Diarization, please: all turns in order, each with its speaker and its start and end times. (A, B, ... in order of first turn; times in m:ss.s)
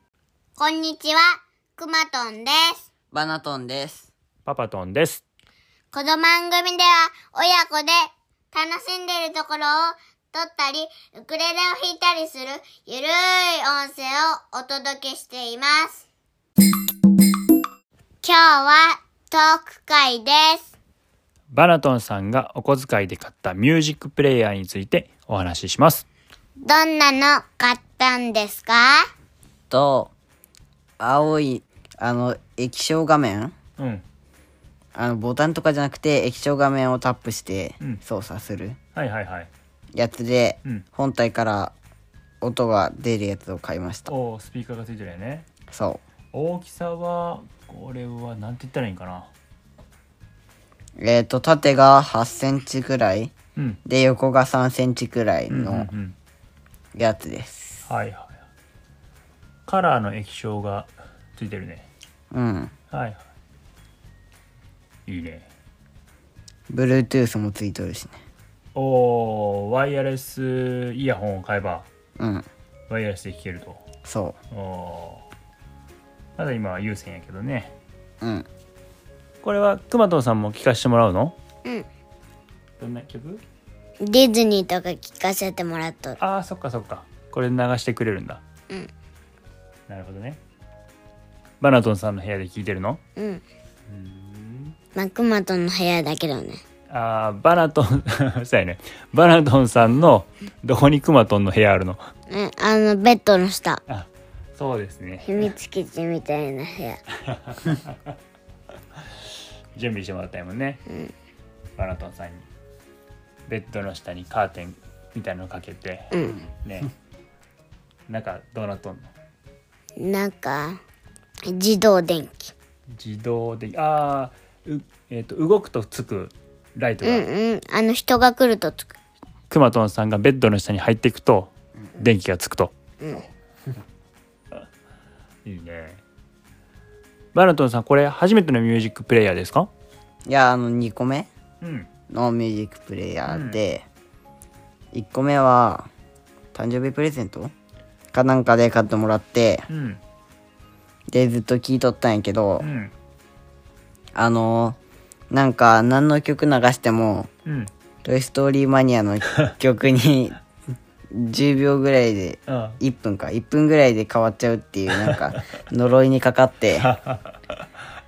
0:00.6-0:02.8 A
0:03.1-0:04.1 B
0:04.5-0:05.2 C
0:05.9-0:16.1 A
0:18.2-0:20.7 A
0:21.5-0:26.1 C
0:26.6-0:29.0 A
0:29.7-0:30.1 B
0:31.0-0:33.6 B
0:33.8-0:34.0 C
0:35.0-0:38.8 B
0:39.0-0:39.5 C
0:40.0-0:41.7 B
0:42.4-0:44.1 B
0:44.1-0:45.5 C
0:45.7-0:46.0 B
0:46.3-0:49.3 C
0:51.0-0:53.3 B
0:53.6-0:53.8 C
0:53.9-0:55.9 B
0:55.5-0:56.2 C
0:57.0-0:57.7 B
0:57.9-0:58.4 C
0:59.7-1:01.9 C
1:02.3-1:02.7 B
1:02.9-1:03.2 C
1:05.1-1:05.5 C
1:06.7-1:08.2 B
1:08.8-1:11.9 C
1:12.2-1:12.5 B
1:12.9-1:13.8 C
1:14.0-1:14.4 B
1:14.5-1:15.2 C
1:16.4-1:17.7 C
1:18.2-1:18.5 B
1:19.4-1:21.4 C
1:22.8-1:23.4 C
1:24.0-1:26.2 A
1:26.2-1:28.4 C
1:29.9-1:30.4 C
1:31.6-1:33.0 C
1:33.2-1:33.4 A
1:33.9-1:34.8 C
1:35.0-1:36.6 A
1:36.9-1:42.0 C
1:42.3-1:43.8 A
1:43.9-1:45.5 C
1:45.3-1:47.0 A
1:47.3-1:47.9 C
1:49.8-1:50.8 C
1:51.8-1:52.5 C
1:53.5-1:56.1 C
1:56.1-1:56.4 A
1:56.6-1:56.9 C
1:58.1-1:59.1 C
2:00.0-2:00.8 A
2:01.5-2:02.5 A
2:02.9-2:07.3 C
2:07.0-2:08.9 A
2:09.5-2:12.7 C
2:13.0-2:13.3 A
2:15.4-2:16.0 C
2:17.3-2:19.7 C
2:20.3-2:21.3 B
2:21.6-2:21.9 C
2:22.1-2:23.8 B
2:23.3-2:23.6 C
2:24.9-2:25.9 B
2:26.5-2:27.5 B
2:28.1-2:29.7 B
2:29.7-2:30.0 C
2:31.1-2:32.7 B
2:32.6-2:32.9 C
2:34.2-2:34.8 B
2:35.3-2:37.3 B
2:37.5-2:37.7 C
2:38.0-2:40.4 B
2:41.1-2:46.9 B
2:42.5-2:42.8 C
2:45.0-2:45.4 C
2:46.8-2:47.6 C